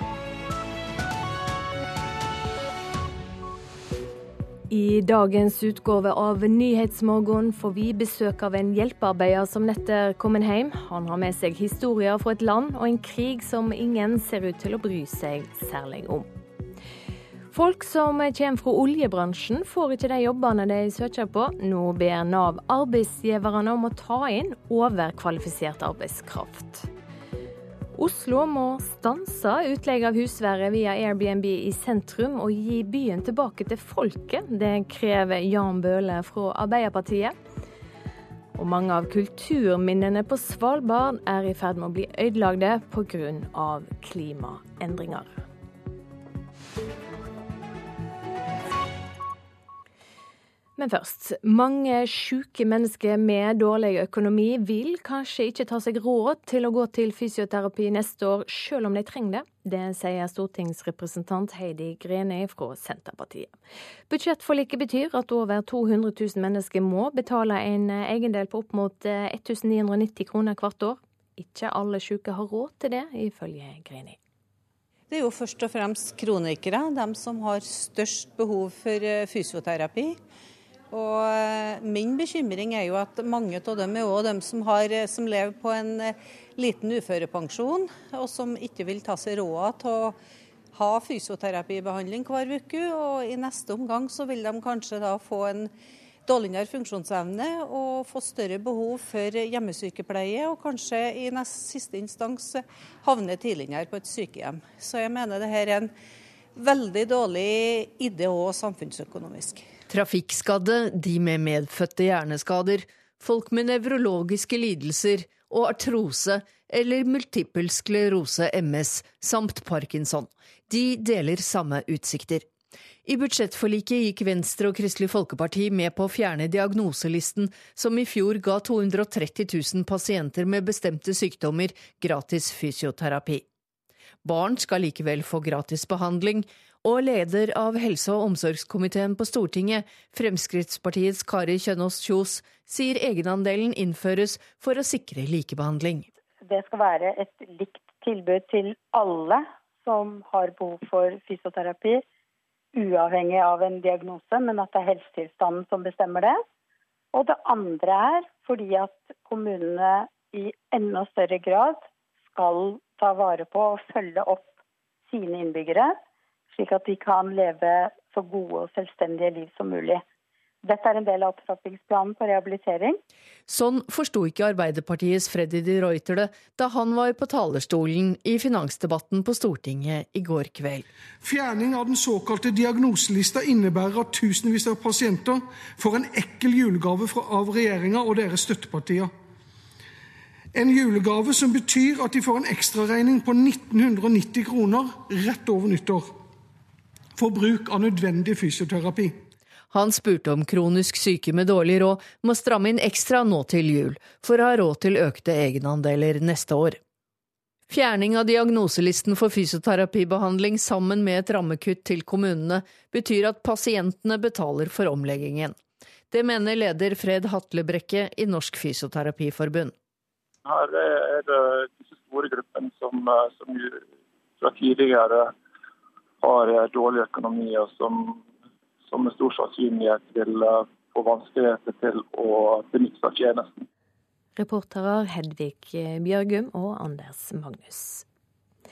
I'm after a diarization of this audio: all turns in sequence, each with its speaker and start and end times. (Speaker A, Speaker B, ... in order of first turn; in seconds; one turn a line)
Speaker A: 4.7-16.3
Speaker A: 17.5-26.9
Speaker A: 28.0-37.4
Speaker A: 38.5-45.4
Speaker A: 50.8-63.5
Speaker A: 64.1-74.2
Speaker B: 75.1-80.2
Speaker B: 80.9-90.2
Speaker B: 90.7-95.7
Speaker B: 96.3-105.9
Speaker B: 106.6-109.7
Speaker C: 109.9-122.5
Speaker C: 123.1-133.4
Speaker C: 134.2-146.2
Speaker D: 146.5-152.0
Speaker D: 152.8-156.4
Speaker D: 157.1-161.8
Speaker D: 162.3-164.5
Speaker D: 165.1-166.0
Speaker D: 166.5-170.0
Speaker D: 170.7-173.0
Speaker C: 173.5-180.9
Speaker E: 181.2-189.1
Speaker E: 190.5-196.1
Speaker E: 197.2-199.2
Speaker C: 199.7-206.8
Speaker C: 207.7-215.6
Speaker C: 216.1-219.7
Speaker F: 220.5-223.8
Speaker F: 224.4-225.3
Speaker F: 226.2-228.2
Speaker F: 228.9-233.6
Speaker A: 234.4-238.1